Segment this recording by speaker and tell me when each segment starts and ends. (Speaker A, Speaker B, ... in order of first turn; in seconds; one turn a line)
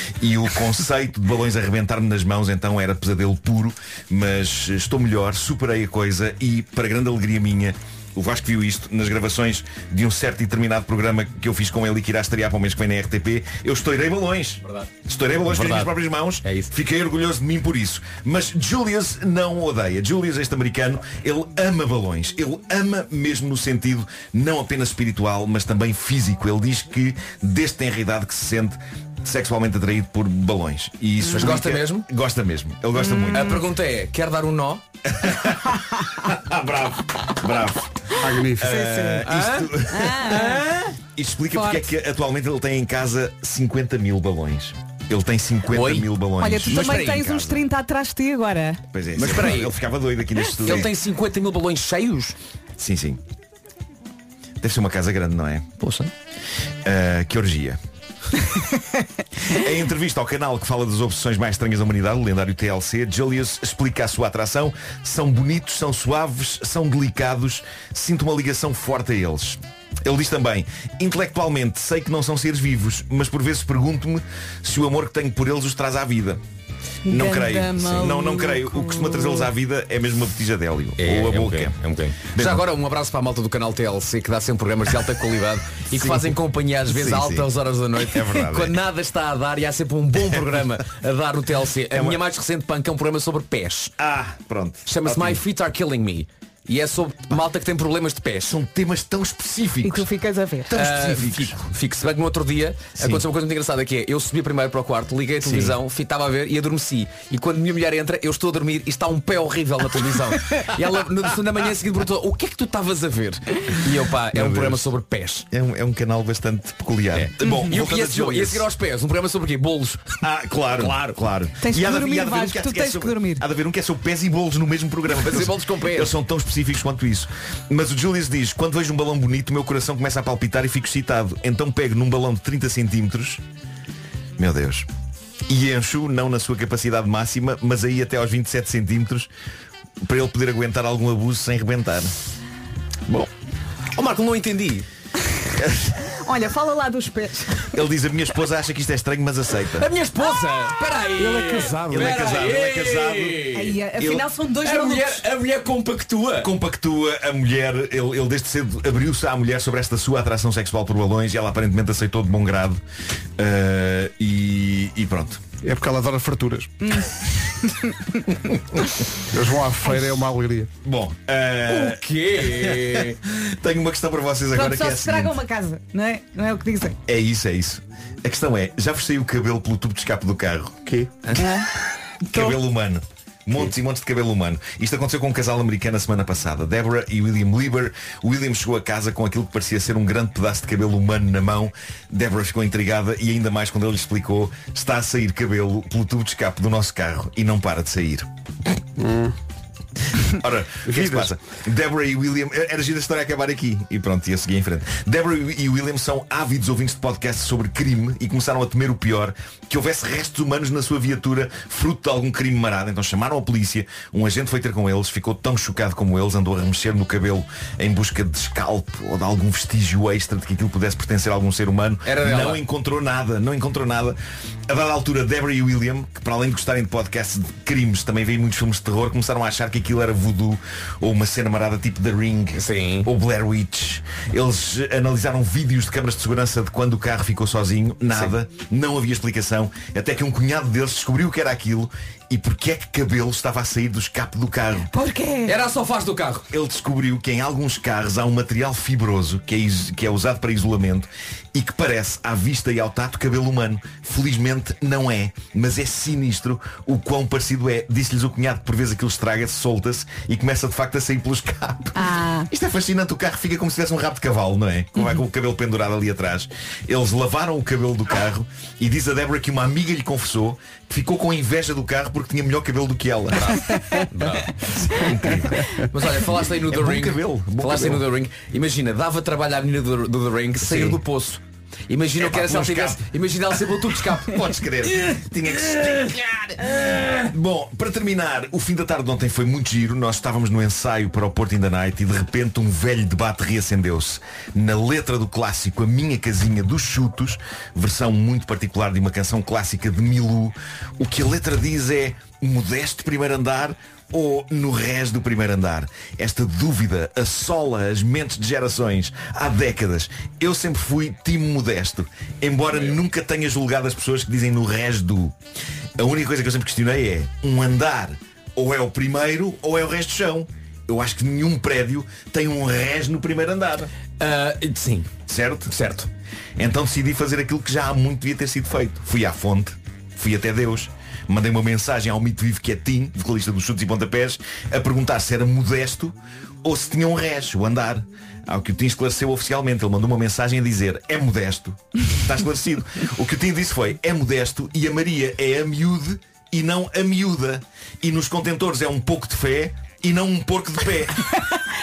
Speaker A: 0.2-33.6
Speaker B: 15.5-16.7
Speaker B: 31.2-32.1
Speaker C: 33.0-33.6
Speaker B: 33.3-34.8
Speaker A: 35.1-38.0
Speaker D: 38.2-38.9
Speaker A: 38.6-40.4
Speaker C: 38.6-39.3
Speaker B: 39.2-40.9
Speaker C: 39.9-40.7
Speaker A: 41.1-47.6
Speaker C: 41.5-41.9
Speaker B: 45.7-46.1
Speaker C: 46.4-48.8
Speaker B: 46.7-47.3
Speaker A: 48.9-51.0
Speaker B: 49.2-49.8
Speaker B: 50.6-52.4
Speaker A: 52.8-53.2
Speaker A: 54.6-55.8
Speaker B: 55.8-56.1
Speaker A: 56.9-57.8
Speaker A: 59.5-76.4
Speaker C: 77.1-79.5
Speaker A: 77.1-82.7
Speaker B: 77.8-78.1
Speaker B: 81.0-94.0
Speaker A: 85.9-87.5
Speaker A: 88.1-88.8
Speaker A: 91.9-92.2
Speaker A: 94.0-95.4
Speaker B: 94.9-98.6
Speaker A: 98.5-100.1
Speaker C: 99.8-100.7
Speaker A: 100.7-101.7
Speaker B: 100.7-115.5
Speaker A: 103.0-103.2
Speaker A: 105.4-105.8
Speaker A: 114.3-114.9
Speaker A: 115.5-118.7
Speaker B: 117.1-120.2
Speaker C: 117.4-117.7
Speaker A: 120.2-133.4
Speaker B: 120.8-121.2
Speaker C: 121.6-123.4
Speaker B: 125.1-126.2
Speaker A: 134.4-134.9
Speaker A: 135.5-139.3
Speaker A: 140.0-142.1
Speaker B: 143.9-144.9
Speaker A: 145.6-145.9
Speaker C: 146.2-147.8
Speaker A: 147.7-149.9
Speaker B: 149.8-153.8
Speaker D: 151.2-152.2
Speaker A: 151.9-153.5
Speaker C: 153.5-155.2
Speaker A: 154.0-154.3
Speaker B: 154.6-156.5
Speaker A: 156.4-162.8
Speaker A: 163.4-165.4
Speaker D: 165.6-166.7
Speaker C: 166.8-167.9
Speaker D: 169.3-170.7
Speaker A: 170.8-175.4
Speaker B: 171.7-173.2
Speaker C: 174.5-177.0
Speaker A: 177.1-181.3
Speaker C: 181.4-181.7
Speaker A: 182.2-198.3
Speaker C: 182.2-182.6
Speaker D: 199.0-199.4
Speaker A: 200.2-224.2
Speaker D: 200.9-201.3
Speaker B: 222.1-222.6
Speaker A: 224.7-244.9
Speaker B: 232.5-233.1
Speaker B: 238.1-238.3
Speaker C: 244.9-245.6
Speaker B: 245.5-246.5
Speaker A: 246.5-273.8
Speaker C: 262.0-262.5
Speaker B: 273.4-274.7
Speaker A: 274.6-275.9
Speaker B: 275.9-287.3
Speaker A: 276.6-278.1
Speaker A: 280.6-281.0
Speaker A: 282.2-283.1
Speaker A: 284.2-315.4
Speaker A: 316.0-323.9
Speaker B: 324.2-325.1
Speaker A: 325.3-325.7
Speaker B: 325.7-326.1
Speaker A: 326.6-351.2